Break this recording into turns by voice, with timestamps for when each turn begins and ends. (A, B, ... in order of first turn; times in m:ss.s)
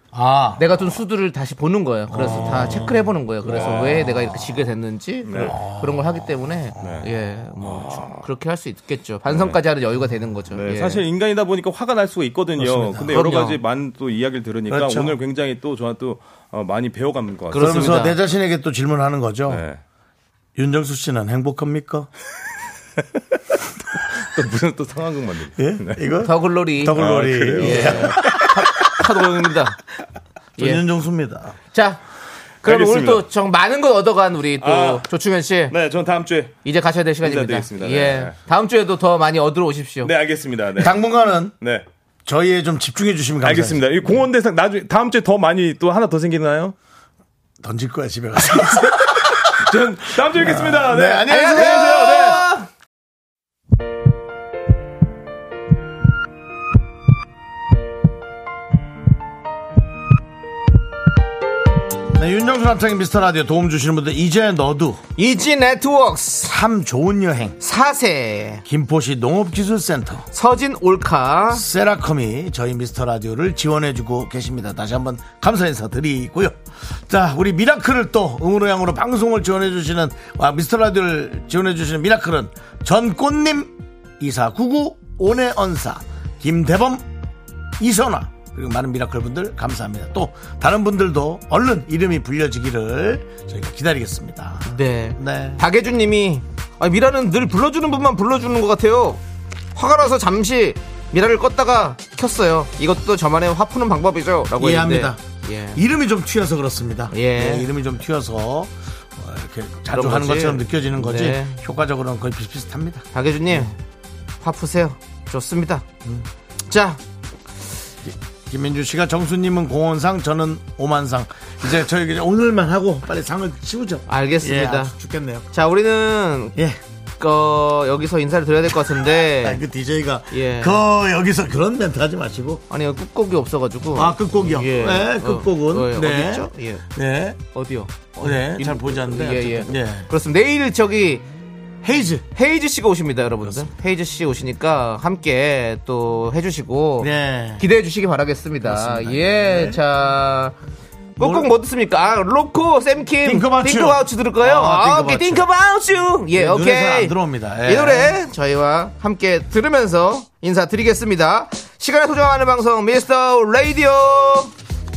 0:00.1-0:00.7 A
0:00.6-0:11.0 B
0:02.1-0:04.5 C
0:02.2-0:02.8 A
0:05.2-0:05.6 C
0:05.4-0:07.0 A
0:06.8-0:08.3 C
0:09.3-0:09.6 C
0:10.5-0:18.0 C
0:12.6-0:13.2 A
0:13.1-0:13.6 B
0:14.7-0:15.2 A
0:17.5-0:18.2 B
0:17.6-0:19.6 A
0:19.5-0:19.8 C
0:20.6-0:22.1 A
0:24.2-0:26.1 C
0:25.6-0:28.2 A
0:26.2-0:29.8 B
0:26.9-0:28.6 C
0:30.6-0:31.6 A
0:31.7-0:32.0 B
0:32.6-0:35.8 B
0:32.6-0:33.2 C
0:34.6-0:35.0 C
0:35.7-0:36.6 C
0:36.6-0:40.1 B
0:37.2-0:38.4 C
0:40.0-0:41.0 C
0:40.8-0:41.6 A
0:41.6-0:41.9 C
0:42.3-0:43.8 A
0:43.4-0:46.8 C
0:47.6-0:49.7 A
0:49.1-0:52.5 C
0:50.3-0:52.0 A
0:51.3-0:52.7 B
1:02.1-1:05.0 A
1:05.2-1:06.5 B
1:06.4-1:07.6 A
1:07.6-1:08.6 B
1:08.6-1:10.3 A
1:10.3-1:11.7 B
1:11.5-1:27.1 A
1:27.8-1:35.6 A
1:34.7-1:39.2 B
1:39.8-1:45.8 B
1:44.6-1:45.2 A
1:45.7-1:53.7 A
1:47.1-1:47.7 B
1:49.9-1:51.6 B
1:53.1-1:53.8 B
1:54.4-1:55.8 B
1:56.7-1:57.0 B
1:58.0-2:05.5 A
2:04.1-2:04.9 B
2:05.5-2:06.6 B
2:06.6-2:06.8 A
2:07.2-2:09.6 B
2:09.2-2:12.6 A
2:10.3-2:10.8 B
2:12.7-2:16.8 B
2:14.0-2:17.4 A
2:17.5-2:21.2 B
2:18.2-2:20.1 A
2:21.8-2:22.3 A
2:22.3-2:30.6 B
2:27.0-2:27.7 A
2:28.6-2:29.8 A
2:31.2-2:44.5 B
2:31.2-2:31.5 A
2:33.2-2:35.5 A
2:36.3-2:38.2 A